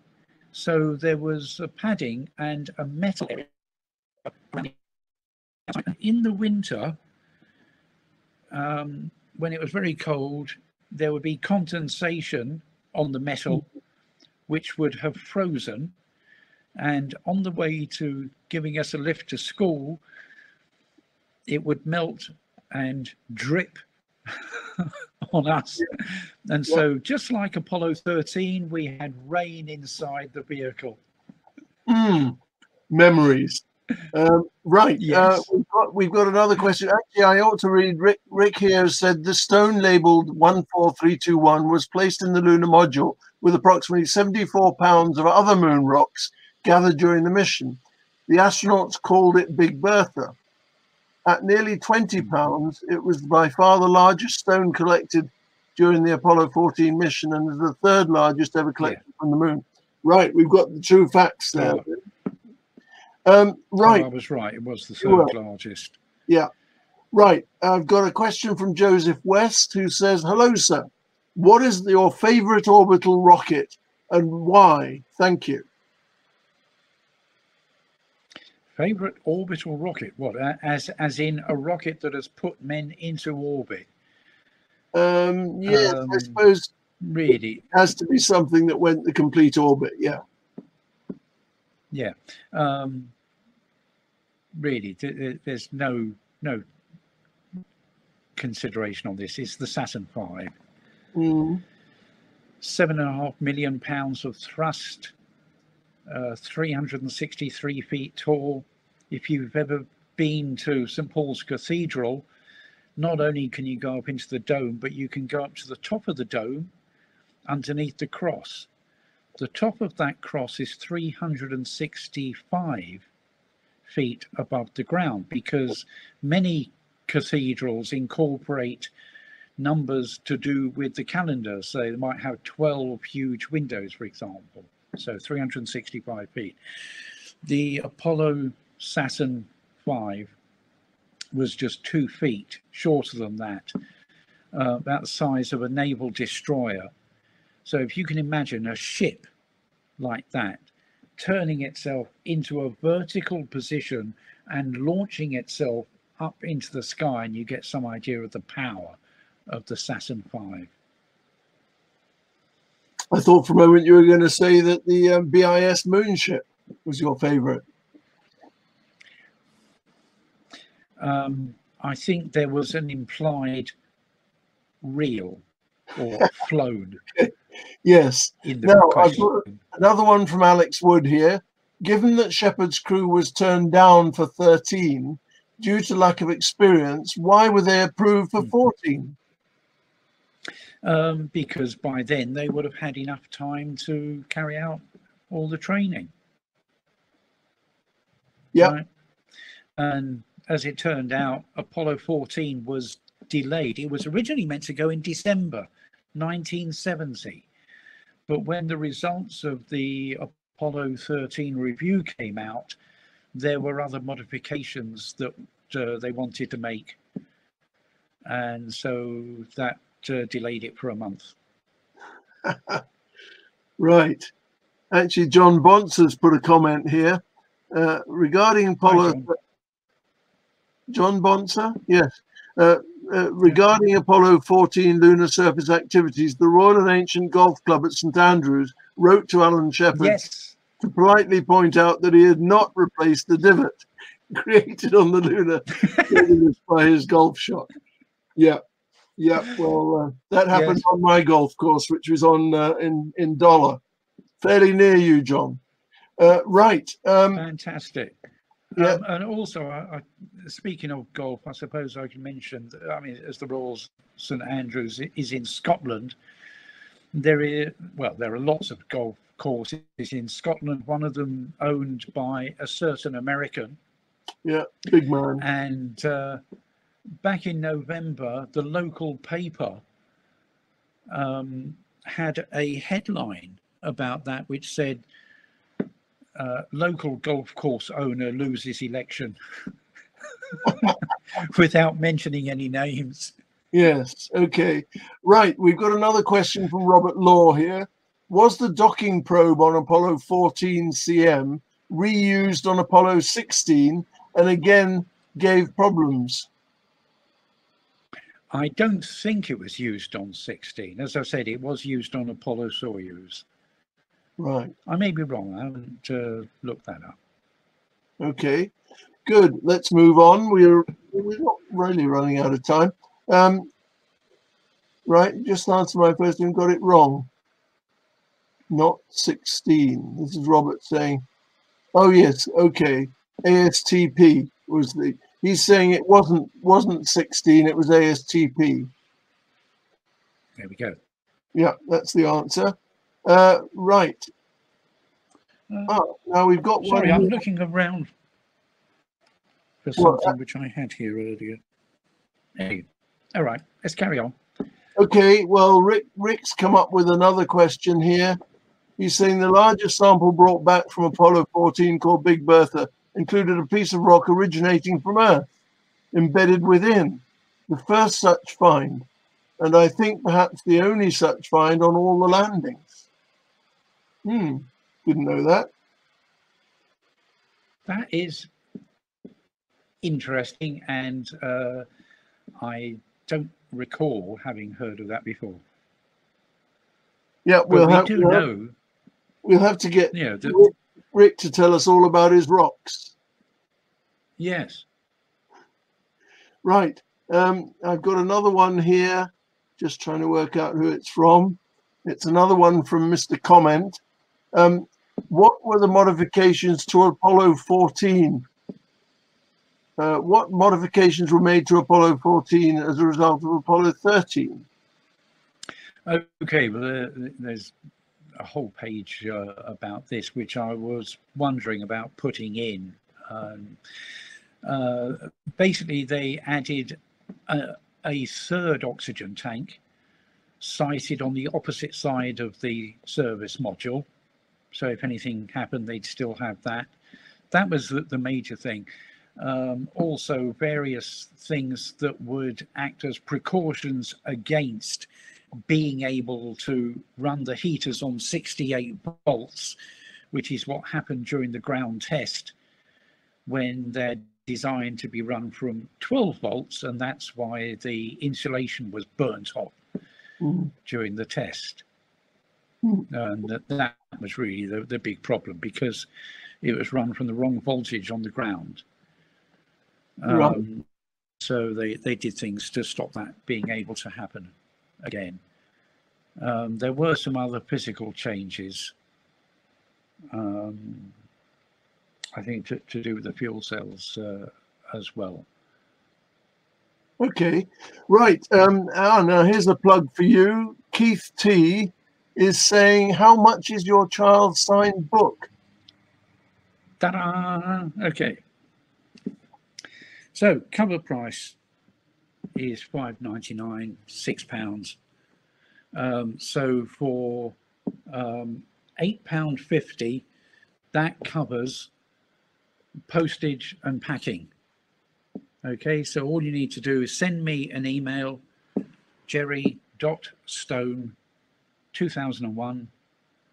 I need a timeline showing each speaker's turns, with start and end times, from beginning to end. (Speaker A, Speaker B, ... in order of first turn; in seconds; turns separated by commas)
Speaker A: 0.5-3.5, Speaker A: 5.7-7.0, Speaker A: 8.5-13.6, Speaker A: 14.5-15.9, Speaker A: 16.8-20.0, Speaker A: 21.5-31.0, Speaker B: 31.9-32.4, Speaker B: 32.9-50.3, Speaker A: 35.0-35.5, Speaker B: 51.2-61.9, Speaker A: 61.6-61.8, Speaker B: 63.2-64.0, Speaker A: 63.8-66.0, Speaker B: 65.0-65.3, Speaker B: 67.1-75.7, Speaker A: 78.8-83.9, Speaker B: 84.9-86.7, Speaker A: 85.7-86.4, Speaker A: 87.0-87.6, Speaker B: 87.7-90.2, Speaker A: 91.9-93.1, Speaker A: 94.5-96.6, Speaker A: 98.3-100.5, Speaker B: 101.1-101.6, Speaker A: 102.6-105.1, Speaker A: 106.1-112.3, Speaker A: 113.0-116.7, Speaker A: 117.5-118.7, Speaker A: 119.4-123.1, Speaker A: 123.8-128.9, Speaker A: 129.6-136.6, Speaker A: 137.4-140.3, Speaker A: 141.3-143.7, Speaker A: 144.5-146.9, Speaker A: 147.6-149.3, Speaker A: 150.0-150.6, Speaker A: 151.2-159.0, Speaker A: 159.5-160.7, Speaker B: 163.1-167.6, Speaker A: 171.0-173.7, Speaker A: 174.8-175.4, Speaker A: 175.9-177.0, Speaker B: 177.8-189.2, Speaker A: 178.4-179.6, Speaker A: 190.8-196.1, Speaker A: 198.6-198.9, Speaker A: 199.8-207.5, Speaker A: 208.3-212.8, Speaker A: 213.3-217.0, Speaker A: 218.2-221.3, Speaker B: 222.4-222.8, Speaker B: 223.8-224.3, Speaker B: 224.9-229.3, Speaker A: 228.8-229.3, Speaker B: 230.9-240.2, Speaker A: 239.9-240.6, Speaker B: 240.8-247.7, Speaker B: 249.2-253.8, Speaker A: 250.5-250.8, Speaker B: 254.4-255.6, Speaker B: 256.2-257.4, Speaker A: 257.4-258.1, Speaker A: 258.7-266.1, Speaker A: 267.1-273.8, Speaker B: 274.4-275.4, Speaker A: 275.4-276.4, Speaker A: 277.2-279.8, Speaker A: 281.1-285.0, Speaker A: 286.4-289.4, Speaker A: 290.4-293.3, Speaker B: 293.7-306.5, Speaker A: 308.5-313.4, Speaker B: 314.4-314.7, Speaker A: 314.9-317.2, Speaker B: 318.2-318.7, Speaker B: 319.2-323.7, Speaker B: 325.1-327.3, Speaker B: 328.7-331.2, Speaker B: 331.9-338.9, Speaker A: 340.6-341.0, Speaker B: 341.5-342.7, Speaker B: 343.2-344.3, Speaker A: 345.7-345.9, Speaker B: 345.9-347.4, Speaker A: 346.8-348.1, Speaker A: 349.8-351.6, Speaker B: 350.0-350.3, Speaker A: 352.6-354.4, Speaker B: 354.9-358.4, Speaker B: 359.0-365.5, Speaker B: 366.1-369.1, Speaker B: 369.6-373.0, Speaker B: 374.2-375.7, Speaker A: 377.9-378.5, Speaker A: 380.0-381.9, Speaker A: 382.6-385.6, Speaker B: 387.4-388.4, Speaker A: 387.7-388.7, Speaker B: 389.4-393.1, Speaker A: 390.1-390.6, Speaker A: 394.4-394.9, Speaker B: 396.6-404.0, Speaker B: 404.5-408.4, Speaker B: 410.0-414.6, Speaker A: 416.1-417.7, Speaker A: 418.4-423.8, Speaker A: 424.6-429.8, Speaker A: 430.6-434.1, Speaker A: 434.7-436.9, Speaker A: 437.5-438.9, Speaker A: 439.4-445.1, Speaker A: 445.7-449.8, Speaker A: 450.3-452.5, Speaker A: 453.4-459.8, Speaker B: 460.4-460.7, Speaker A: 460.8-461.8, Speaker A: 463.1-466.1, Speaker A: 466.6-468.8, Speaker A: 470.2-470.9, Speaker B: 470.3-470.6, Speaker A: 471.4-475.4, Speaker A: 476.4-478.9, Speaker A: 480.3-481.1, Speaker A: 482.4-485.5, Speaker B: 487.2-495.5, Speaker A: 497.0-498.4, Speaker A: 500.3-501.6, Speaker A: 502.5-505.0, Speaker A: 505.9-507.6, Speaker A: 508.1-510.2, Speaker A: 510.9-511.9, Speaker A: 513.1-514.5, Speaker A: 515.6-518.4, Speaker A: 519.3-521.2, Speaker A: 521.9-522.9